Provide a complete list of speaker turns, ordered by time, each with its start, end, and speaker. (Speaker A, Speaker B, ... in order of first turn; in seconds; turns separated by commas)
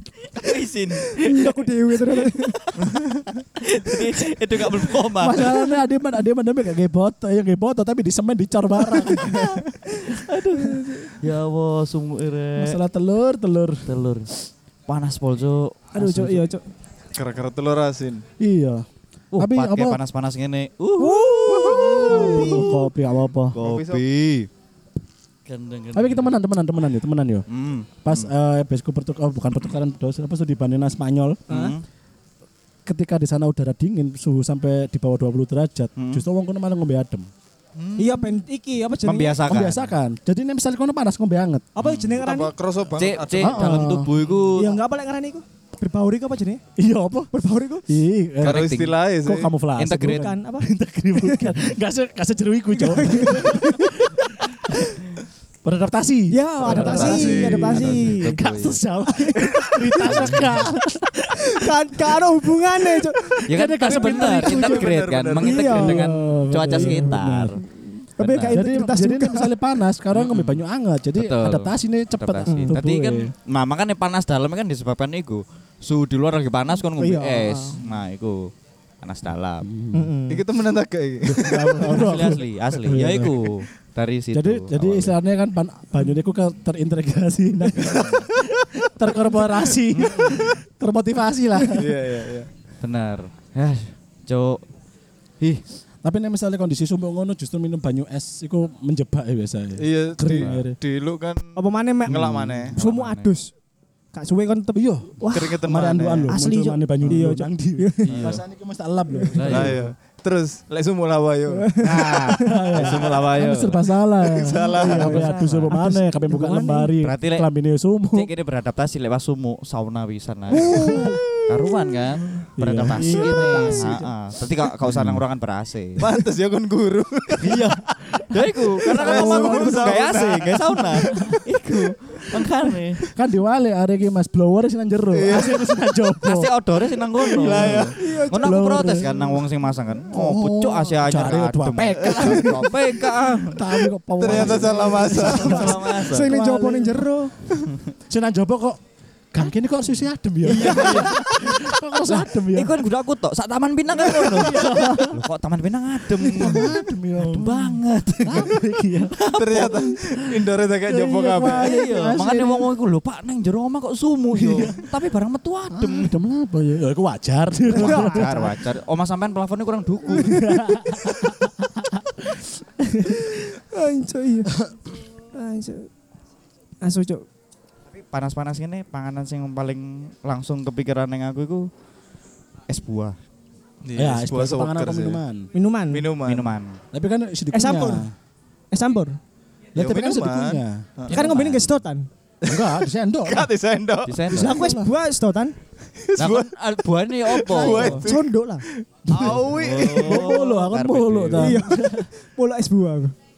Speaker A: 0.2-1.5, Speaker B: 1.1-2.9, Speaker A: 2.8-5.7, Speaker C: 5.0-9.6, Speaker A: 9.1-12.8, Speaker C: 12.6-13.9, Speaker A: 13.9-14.3, Speaker A: 14.9-16.1, Speaker B: 15.9-16.6, Speaker C: 16.0-16.5, Speaker D: 17.1-18.2, Speaker C: 18.4-18.9, Speaker A: 19.3-22.7, Speaker C: 19.4-20.0, Speaker B: 21.0-22.9, Speaker C: 21.5-23.6, Speaker A: 23.5-24.5, Speaker D: 23.5-24.0, Speaker A: 25.5-26.4, Speaker C: 25.9-27.5, Speaker A: 27.5-28.3, Speaker C: 28.0-31.5, Speaker A: 31.5-31.8, Speaker C: 32.9-37.3, Speaker A: 36.0-36.2, Speaker D: 37.8-38.4, Speaker B: 38.0-39.4, Speaker A: 39.0-39.9, Speaker C: 39.5-41.7, Speaker B: 41.8-42.5, Speaker A: 41.8-42.2, Speaker D: 42.1-43.9, Speaker A: 43.0-44.8, Speaker C: 43.4-44.1, Speaker B: 44.5-46.6, Speaker C: 46.8-47.3, Speaker B: 47.3-47.9, Speaker C: 47.9-55.0, Speaker A: 48.4-49.0, Speaker D: 48.4-49.5, Speaker A: 49.8-50.3, Speaker B: 50.1-51.5, Speaker B: 52.8-53.9, Speaker C: 55.6-62.1, Speaker B: 56.3-58.4, Speaker A: 56.7-58.8, Speaker D: 56.7-58.1, Speaker B: 59.1-60.1, Speaker A: 60.0-60.6, Speaker B: 61.4-63.4, Speaker C: 62.8-64.9, Speaker A: 63.5-67.6, Speaker D: 63.9-65.7, Speaker B: 65.4-67.2, Speaker C: 65.6-67.7, Speaker B: 68.2-69.5, Speaker A: 68.2-68.6, Speaker C: 68.5-73.3, Speaker A: 70.1-70.6, Speaker A: 71.2-78.5, Speaker B: 72.5-72.7, Speaker B: 77.0-77.8, Speaker A: 79.0-79.7, Speaker C: 79.6-80.1, Speaker B: 79.9-80.4, Speaker D: 80.3-82.1, Speaker C: 81.2-83.7, Speaker A: 81.8-85.2, Speaker C: 84.3-92.0, Speaker D: 87.8-88.2, Speaker A: 89.9-90.5, Speaker D: 91.8-92.5, Speaker A: 92.8-94.6, Speaker C: 96.0-100.8, Speaker D: 99.8-102.8, Speaker B: 101.6-103.5, Speaker A: 102.1-103.3, Speaker C: 102.2-102.7, Speaker B: 104.1-105.6, Speaker C: 104.8-109.9, Speaker D: 105.3-106.3, Speaker B: 106.3-108.2, Speaker A: 108.1-108.4, Speaker A: 109.3-109.9, Speaker D: 109.5-111.7, Speaker B: 111.5-112.7, Speaker A: 111.8-113.8, Speaker C: 112.4-118.3, Speaker D: 112.8-113.2, Speaker D: 114.2-115.4, Speaker B: 114.6-116.9, Speaker A: 114.8-115.7, Speaker A: 117.0-117.5, Speaker A: 118.1-126.1, Speaker C: 120.5-121.2, Speaker B: 120.6-121.2, Speaker C: 122.6-124.1, Speaker B: 123.0-123.3, Speaker D: 124.9-125.2, Speaker D: 126.0-127.7, Speaker A: 127.4-133.0, Speaker C: 128.1-130.1, Speaker D: 128.9-131.3, Speaker C: 131.0-131.4, Speaker C: 133.0-136.5, Speaker D: 135.1-135.7, Speaker A: 136.2-146.4, Speaker C: 137.2-139.1, Speaker D: 137.3-137.9, Speaker B: 137.9-138.7, Speaker C: 140.1-142.7, Speaker C: 143.4-147.0, Speaker D: 144.2-145.9, Speaker B: 145.2-147.8, Speaker C: 148.1-148.8, Speaker C: 149.3-152.8, Speaker A: 150.4-158.6, Speaker D: 150.5-151.1, Speaker C: 154.0-155.2, Speaker C: 156.2-159.2, Speaker A: 159.1-159.9, Speaker D: 159.3-161.7, Speaker C: 160.1-162.7, Speaker A: 161.4-166.2, Speaker C: 164.3-164.9, Speaker C: 165.7-168.5, Speaker A: 167.7-170.5, Speaker B: 167.8-168.4, Speaker C: 170.2-173.3, Speaker B: 170.2-170.8, Speaker B: 173.3-174.5, Speaker B: 175.3-175.9, Speaker B: 176.8-177.2, Speaker A: 177.9-181.7, Speaker A: 182.7-183.2, Speaker D: 183.8-185.2, Speaker C: 184.0-185.5, Speaker B: 185.5-186.1, Speaker D: 185.9-186.5, Speaker A: 186.2-186.8, Speaker C: 186.9-188.1, Speaker B: 187.5-188.1, Speaker B: 188.7-189.2, Speaker C: 189.8-190.9, Speaker D: 189.8-191.2, Speaker A: 191.1-191.7, Speaker B: 191.1-192.1, Speaker D: 192.4-194.2, Speaker C: 192.4-193.5, Speaker A: 194.1-194.7, Speaker C: 194.3-194.9, Speaker B: 194.3-195.6, Speaker D: 196.0-196.5, Speaker A: 196.2-198.0, Speaker D: 197.1-200.4, Speaker C: 197.5-198.1, Speaker B: 198.0-198.7, Speaker A: 199.1-201.6, Speaker C: 200.0-202.1, Speaker B: 201.4-203.1